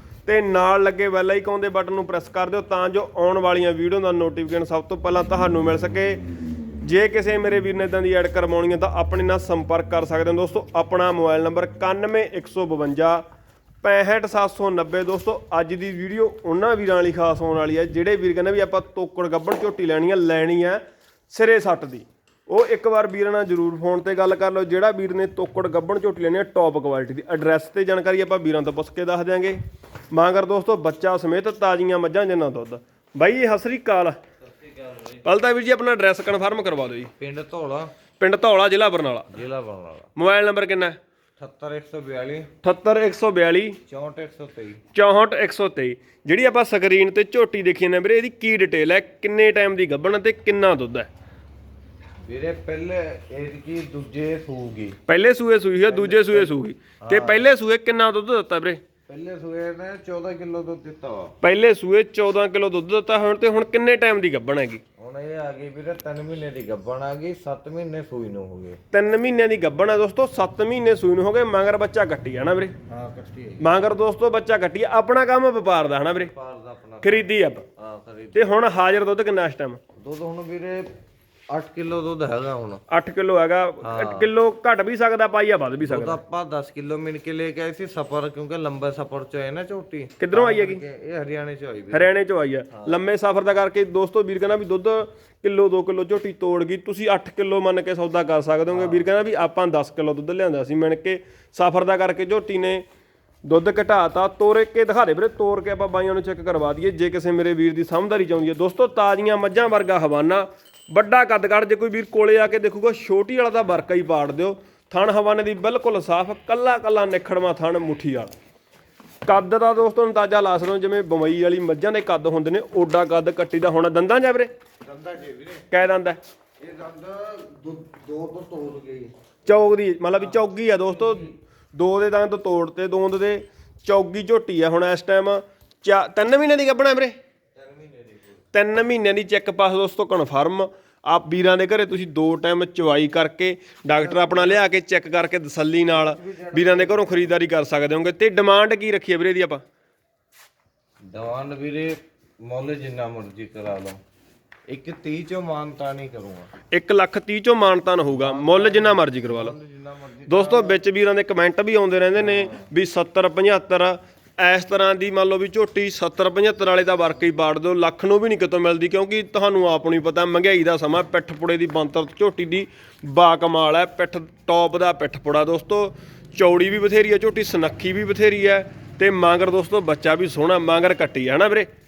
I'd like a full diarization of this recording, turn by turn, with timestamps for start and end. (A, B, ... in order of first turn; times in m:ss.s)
0:00.2-0:06.2 A
0:06.8-0:13.2 A
0:13.8-0:29.6 A
0:30.1-0:34.2 A
0:34.5-0:35.2 B
0:35.2-0:37.1 A
0:37.2-0:37.9 B
0:38.2-0:39.4 A
0:39.3-0:40.1 B
0:40.1-0:41.0 A
0:41.4-0:42.5 B
0:42.6-0:43.8 A
0:43.9-0:44.8 B
0:44.9-0:51.1 A
0:52.2-0:55.0 B
0:55.0-0:58.8 A
0:55.8-0:57.4 B
0:59.1-1:01.4 B
1:01.4-1:04.8 A
1:05.0-1:08.8 B
1:08.9-1:12.7 A
1:12.9-1:13.8 B
1:13.6-1:16.3 A
1:16.1-1:18.6 B
1:17.0-1:17.6 A
1:18.3-1:19.8 A
1:20.0-1:20.9 B
1:21.5-1:22.8 B
1:22.9-1:26.2 A
1:23.8-1:24.3 B
1:25.8-1:32.1 B
1:30.2-1:30.8 A
1:31.9-1:42.8 A
1:32.7-1:33.0 B
1:38.7-1:39.1 B
1:43.4-1:58.3 A
1:59.2-2:04.5 A
2:04.8-2:05.7 B
2:05.7-2:06.2 A
2:06.6-2:09.1 B
2:09.4-2:17.1 A
2:10.2-2:10.4 B
2:11.0-2:11.3 B
2:17.5-2:18.4 B
2:18.5-2:29.6 A
2:23.9-2:24.6 B
2:25.9-2:27.3 B
2:31.1-2:34.0 B
2:34.7-2:36.5 B
2:36.7-2:39.5 A
2:38.1-2:40.8 B
2:40.3-3:01.7 A
2:42.1-2:42.7 B